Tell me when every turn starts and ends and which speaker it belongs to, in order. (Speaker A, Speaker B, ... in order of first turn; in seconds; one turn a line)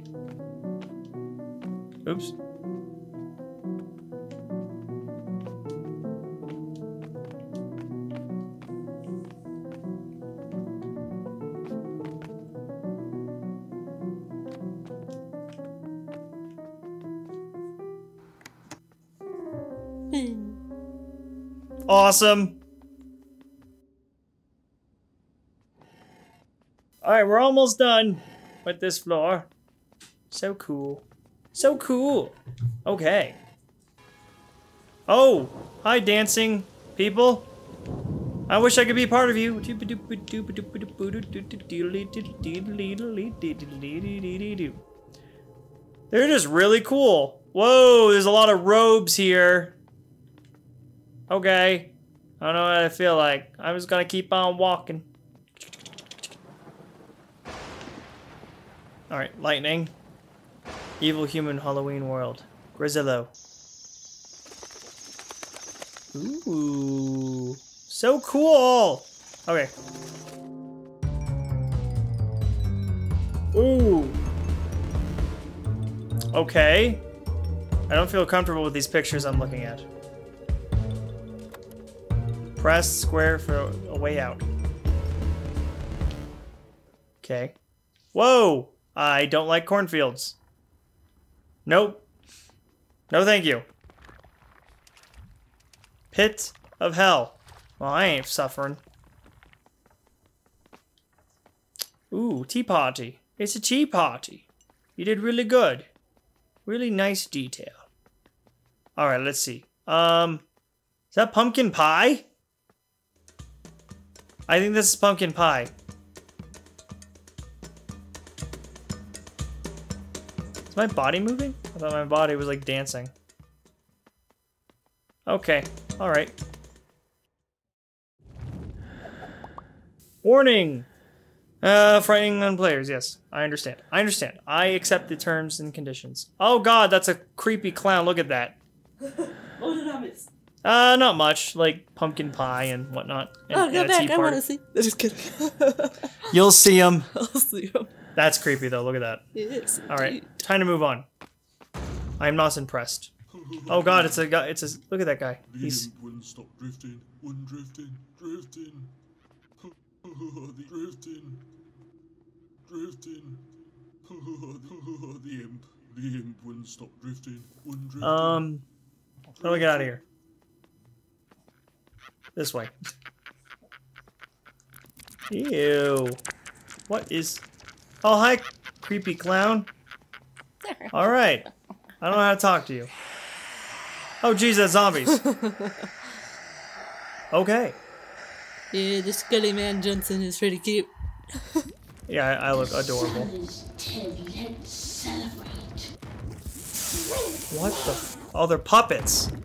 Speaker A: 2.0-2.3
Speaker B: 20.1-20.6
Speaker A: 21.9-22.6
Speaker A: 27.0-29.5
Speaker A: 30.3-33.4
Speaker A: 35.1-37.5
Speaker A: 38.5-44.8
Speaker A: 46.1-49.8
Speaker A: 51.3-55.0
Speaker A: 59.1-59.9
Speaker A: 61.0-63.3
Speaker A: 66.1-69.7
Speaker A: 73.5-74.2
Speaker A: 76.3-77.0
Speaker A: 77.9-79.8
Speaker A: 82.6-84.5
Speaker A: 87.2-87.5
Speaker A: 88.1-90.3
Speaker A: 91.7-92.0
Speaker A: 93.1-93.6
Speaker A: 96.1-98.8
Speaker A: 102.1-105.9
Speaker A: 106.7-107.8
Speaker A: 109.0-110.4
Speaker A: 111.1-112.2
Speaker A: 114.5-115.7
Speaker A: 120.7-123.1
Speaker A: 125.2-126.3
Speaker A: 130.2-130.9
Speaker A: 131.6-138.6
Speaker B: 139.1-140.3
Speaker A: 140.6-144.4
Speaker B: 143.5-146.3
Speaker A: 146.3-147.1
Speaker B: 147.1-147.9
Speaker A: 148.2-149.2
Speaker B: 149.3-150.4
Speaker A: 149.9-151.1
Speaker A: 152.2-153.1
Speaker C: 153.3-154.3
Speaker A: 153.7-155.9
Speaker C: 155.5-158.9
Speaker C: 160.0-161.4
Speaker C: 162.7-163.4
Speaker C: 164.1-168.5
Speaker A: 168.0-168.6
Speaker C: 169.4-170.0
Speaker A: 169.4-170.0
Speaker A: 172.3-172.7
Speaker A: 175.3-176.2
Speaker A: 176.9-177.4
Speaker A: 178.0-179.7
Speaker B: 180.6-180.9
Speaker A: 180.9-181.5
Speaker A: 182.0-182.9
Speaker A: 184.2-185.2
Speaker B: 185.2-185.9
Speaker A: 187.3-187.8
Speaker B: 188.7-191.7
Speaker A: 192.1-193.3
Speaker A: 197.5-199.3